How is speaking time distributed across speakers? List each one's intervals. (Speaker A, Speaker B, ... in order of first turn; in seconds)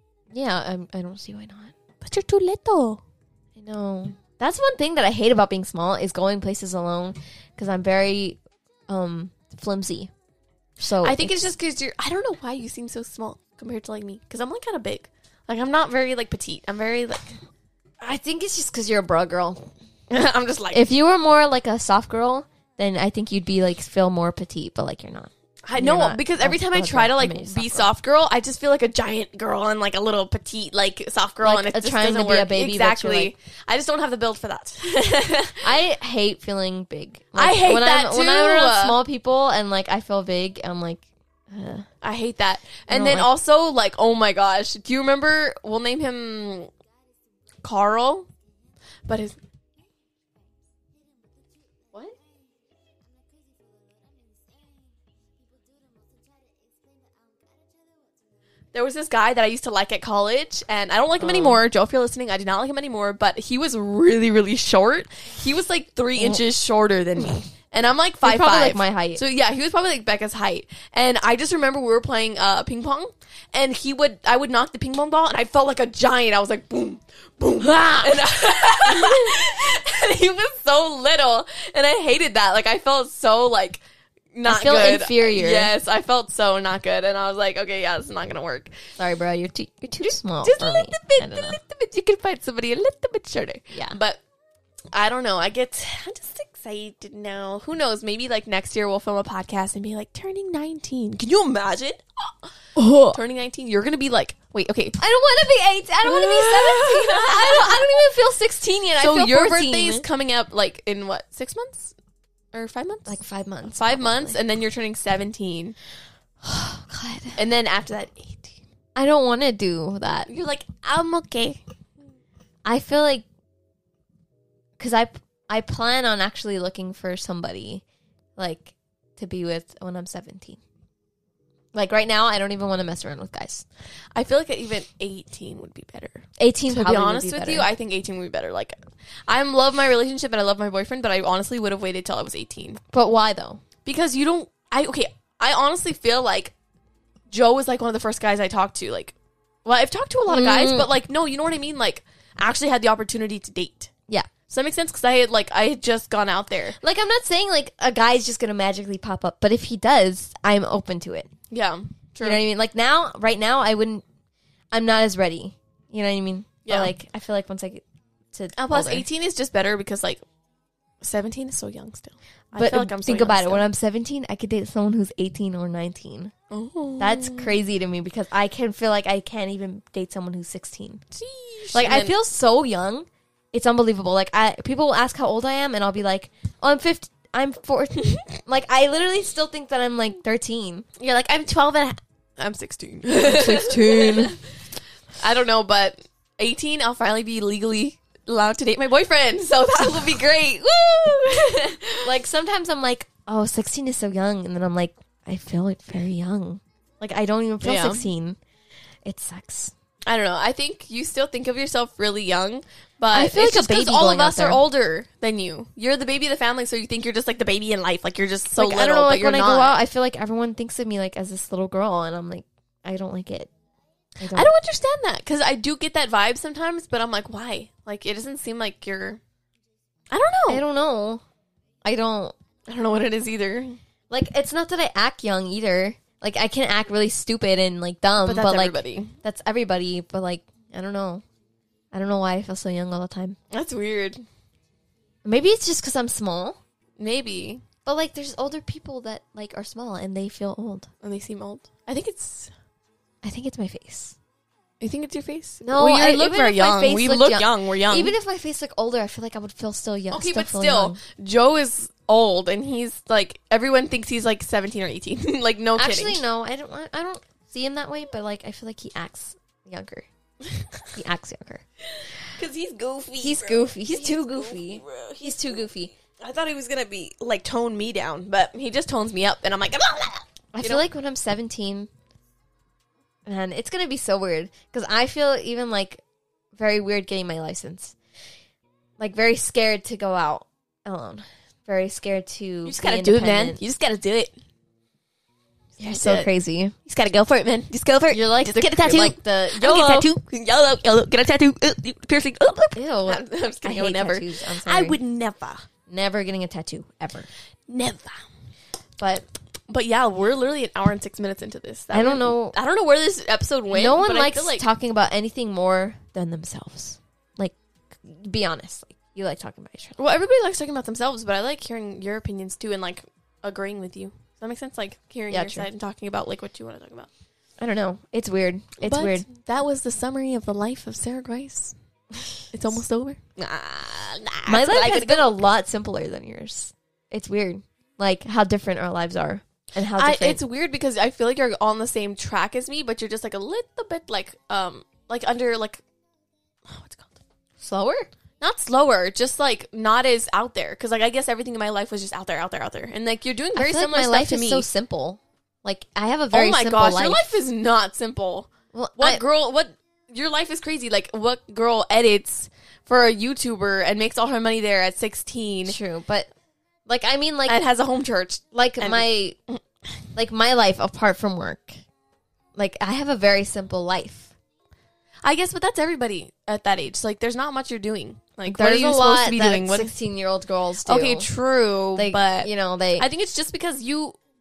Speaker A: 0.3-1.7, 3.5-10.1, 10.8-11.5, 18.0-19.7, 20.7-27.9, 31.4-33.3, 35.6-41.9, 42.9-43.3, 61.2-61.6, 66.2-66.4, 68.2-69.2, 78.8-79.4, 84.4-85.7, 89.0-91.6, 93.7-94.0, 102.8-103.2, 105.0-110.0, 113.1-114.4, 116.4-117.4, 119.0-120.3, 122.6-123.2, 124.8-127.8, 128.4-130.6, 131.7-133.6, 136.4-137.7, 142.9-143.6, 150.3-150.9, 156.8-161.3, 162.2-164.0, 164.7-169.1, 172.6-176.3, 177.0-181.0, 181.7-190.8, 193.2-194.3, 202.0-208.4, 209.0-209.7, 213.1-214.6, 218.6-223.5, 224.2-224.5, 230.5-231.2, 231.8-232.3, 234.1-241.2, 241.9-243.4, 245.2-246.6, 247.8-250.9, 253.2-254.2, 255.6-261.0, 265.8-270.1, 270.9-271.6, 273.2-275.9, 280.5-281.9, 283.2-286.0, 286.5-287.9, 289.0-293.6, 295.8-296.7, 298.1-300.1, 302.8-305.0, 305.9-307.3, 309.0-309.2, 311.9-312.5, 313.7-320.0, 325.3-325.6, 327.6-329.2, 334.5-340.4, 347.6-348.1, 353.5-357.4, 358.7-359.2, 365.6-366.3, 366.9-367.6, 368.5-369.4, 370.1-371.8, 372.6-374.3, 378.4-381.3, 381.9-383.1
Speaker B: 2.0-3.0, 11.0-17.3, 20.1-20.9, 25.6-35.7, 37.4-39.0, 42.0-46.7, 47.6-48.3, 49.1-49.4, 58.7-83.8, 84.3-88.7, 90.0-94.2, 94.9-102.3, 103.1-105.0, 106.0-108.0, 109.0-111.9, 112.5-115.8, 117.3-118.6, 120.3-121.6, 134.1-138.7, 139.3-142.8, 143.8-146.5, 147.3-153.9, 154.5-156.8, 161.5-162.4, 166.7-166.9, 168.6-170.2, 171.0-173.6, 176.5-177.6, 181.1-182.1, 191.0-194.4, 195.2-202.1, 207.6-208.1, 210.1-219.8, 224.3-229.2, 230.1-230.6, 232.7-233.8, 238.2-239.2, 243.5-244.2, 247.0-247.6, 251.0-252.5, 254.8-258.1, 260.1-266.2, 272.3-280.9, 292.6-294.3, 295.8-296.3, 296.9-305.6, 307.7-308.2, 309.7-314.6, 320.0-327.1, 328.8-331.7, 332.5-335.3, 339.9-345.8, 346.6-347.2, 348.4-354.7, 356.3-365.8, 367.5-369.6, 375.2-379.9, 380.8-384.2